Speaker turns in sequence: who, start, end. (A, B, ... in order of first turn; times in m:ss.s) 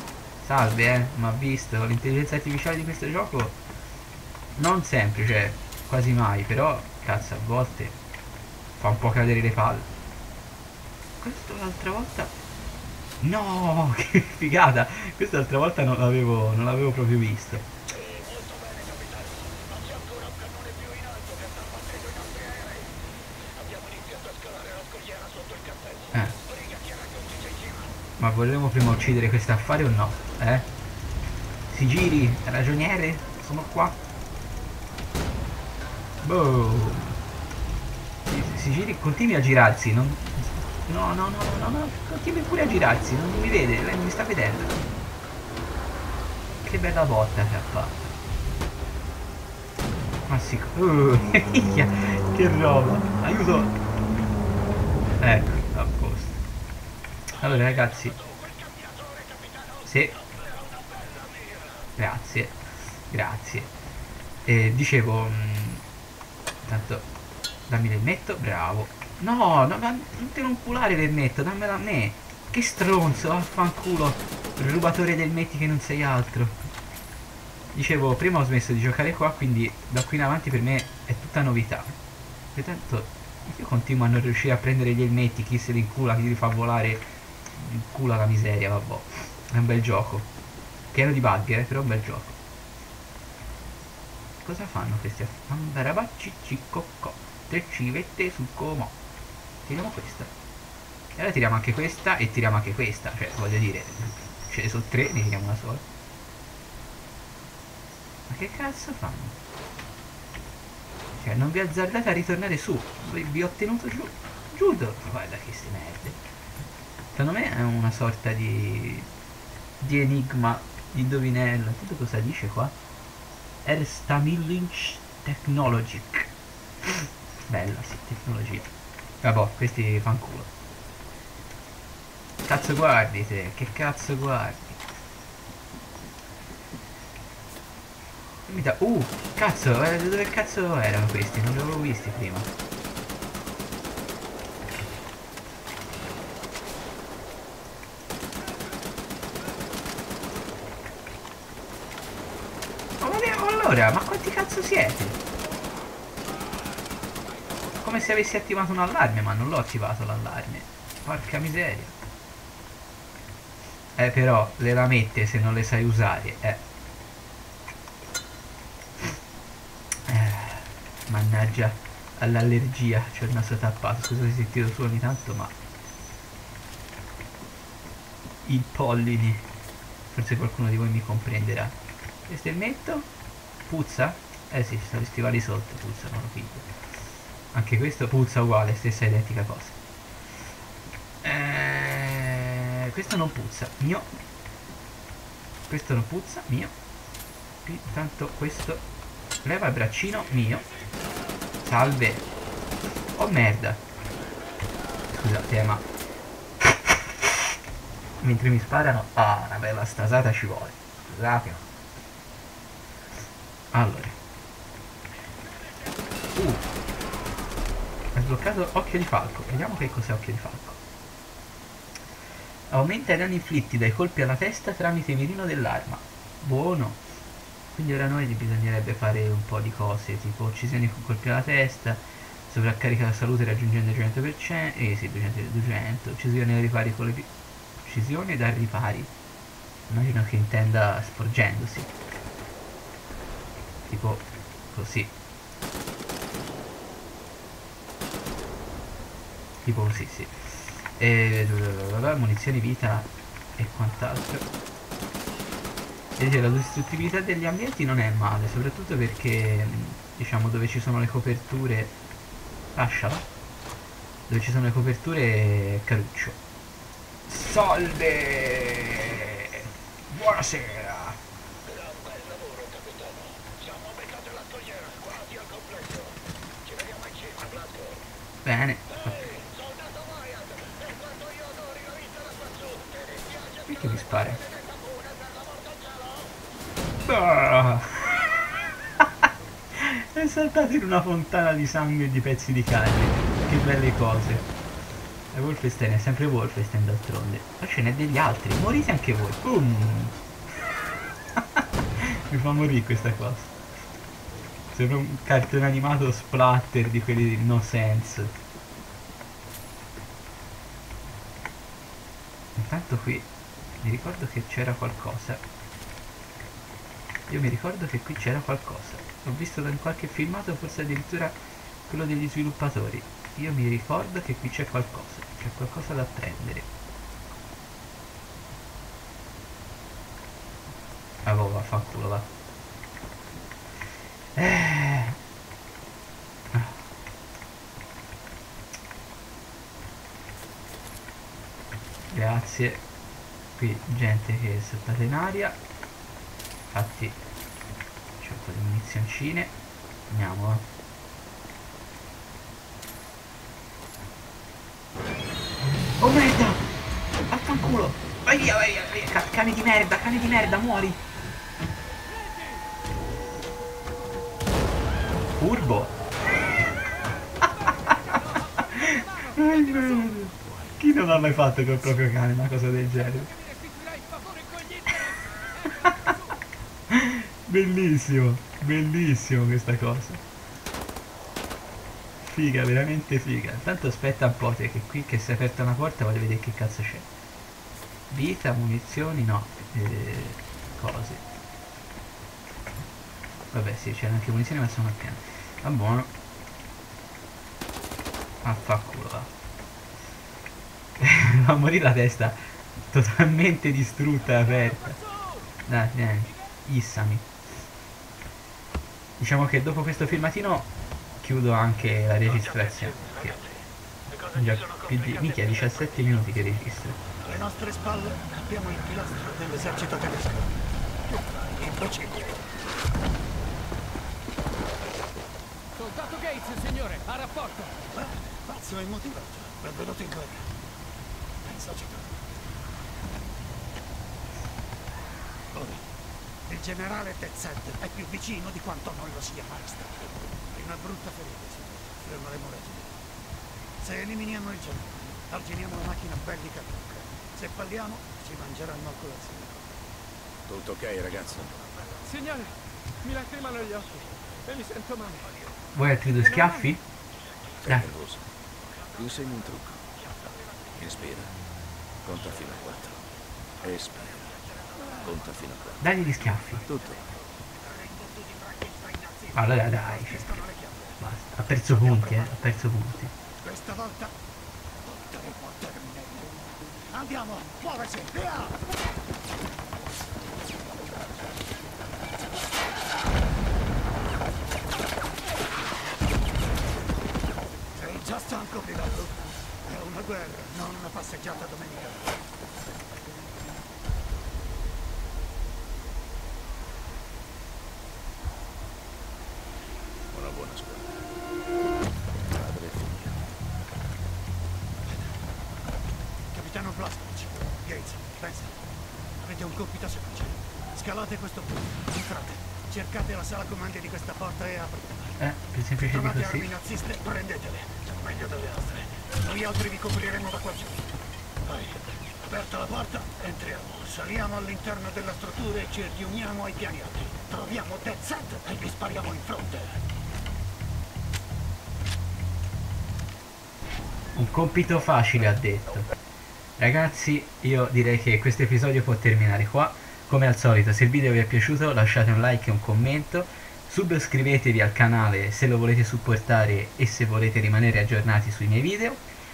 0:00.4-0:03.6 A
0:04.6-0:08.0 A
0:08.8-0:09.9 A
0:11.2-0:12.3 A
0:13.2-0:17.7 A
0:18.6-0:19.1 B
0:20.1-0:21.2 B
0:22.0-0:22.8 B
0:23.6-0:25.8 B
0:26.1-0:26.4 A
0:26.9-0:27.6 B
0:28.2-0:30.7 A
0:31.7-0:34.0 A
0:36.2-0:37.2 A
0:38.2-0:44.8 A
0:46.6-0:48.0 A
0:50.3-0:53.8 A
0:55.2-0:56.4 A
0:57.4-0:58.2 A
0:59.8-1:00.2 A
1:02.0-1:03.7 A
1:04.4-1:05.8 A
1:06.7-1:07.1 A
1:07.7-1:16.6 A
1:17.7-1:22.0 A
1:22.5-1:30.3 A
1:30.9-1:32.4 A
1:34.4-1:39.0 A
1:39.6-1:40.3 A
1:41.2-1:45.8 A
1:48.3-1:49.4 A
1:51.1-1:56.2 A
1:57.1-1:59.1 A
1:59.8-2:02.7 A
2:03.6-2:06.3 A
2:06.9-2:08.7 A
2:09.2-2:10.5 A
2:12.5-2:14.8 A
2:18.5-2:22.5 A
2:33.0-2:35.2 A
2:37.8-2:42.0 A
2:44.0-2:46.6 A
2:50.1-2:55.6 A
2:58.4-2:59.5 A
3:00.1-3:01.8 A
3:02.3-3:03.1 A
3:03.7-3:06.7 A
3:07.5-3:09.8 A
3:11.2-3:14.1 A
3:15.7-3:16.7 A
3:17.6-3:18.8 A
3:19.4-3:20.7 A
3:21.6-3:22.3 A
3:23.2-3:23.8 A
3:25.1-3:25.8 A
3:26.6-3:27.3 A
3:28.2-3:31.7 A
3:33.7-3:34.2 A
3:36.4-3:36.6 A
3:38.2-3:40.8 A
3:42.7-3:47.0 A
3:47.7-3:59.1 A
3:59.9-4:01.9 A
4:03.9-4:05.1 A
4:09.6-4:14.5 A
4:16.2-4:22.0 A
4:22.8-4:23.3 A
4:24.3-4:26.4 A
4:27.3-4:31.2 A
4:38.4-4:39.5 A
4:43.6-4:44.5 A
4:47.0-4:48.4 A
4:49.0-4:54.5 A
4:55.3-5:00.2 A
5:01.4-5:03.5 A
5:04.7-5:08.4 A
5:12.6-5:13.3 A
5:13.8-5:15.4 A
5:17.3-5:26.7 A
5:31.2-5:32.3 A
5:34.4-5:35.2 A
5:36.5-5:36.8 A
5:42.1-5:42.8 A
5:43.6-5:45.6 A
5:46.7-5:47.2 A
5:48.2-5:49.5 A
5:50.1-5:50.6 A
5:56.0-5:56.7 A
5:57.3-6:01.0 A
6:05.4-6:06.0 A
6:07.4-6:13.4 A
6:14.5-6:16.2 A
6:16.9-6:20.2 A
6:22.2-6:27.1 A
6:28.1-6:31.2 A
6:33.5-6:36.1 A
6:38.4-6:39.3 A
6:41.0-6:45.0 A
6:45.7-6:47.3 A
6:49.2-6:50.7 A
6:51.2-6:53.4 A
6:54.3-6:57.0 A
6:57.2-7:00.5 B
7:01.1-7:02.4 B
7:06.0-7:07.6 C
7:06.2-7:06.6 B
7:07.8-7:10.5 B
7:11.4-7:12.1 B
7:15.5-7:15.8 B
7:16.5-7:22.9 B
7:23.8-7:29.7 B
7:30.5-7:31.6 D
7:33.1-7:33.6 C
7:33.4-7:34.0 B
7:34.6-7:35.2 C
7:35.7-7:36.8 A
7:37.6-7:38.2 D
7:38.9-7:39.8 D
7:40.8-7:41.4 D
7:42.0-7:43.0 D
7:43.6-7:45.8 D
7:45.8-7:46.7 A
7:46.7-7:47.1 D
7:47.5-7:49.3 B
7:49.3-7:50.5 A
7:50.1-7:51.0 B
7:51.0-7:53.1 A
7:53.4-7:54.2 B
7:54.8-7:58.7 B
8:07.7-8:12.1 B
8:20.1-8:21.0 D
8:22.2-8:23.2 D
8:26.3-8:28.6 B
8:29.2-8:35.2 B
8:35.2-8:36.5 A
8:35.9-8:40.9 B
8:41.4-8:49.8 B
8:54.2-8:55.9 A
8:56.6-9:09.0 A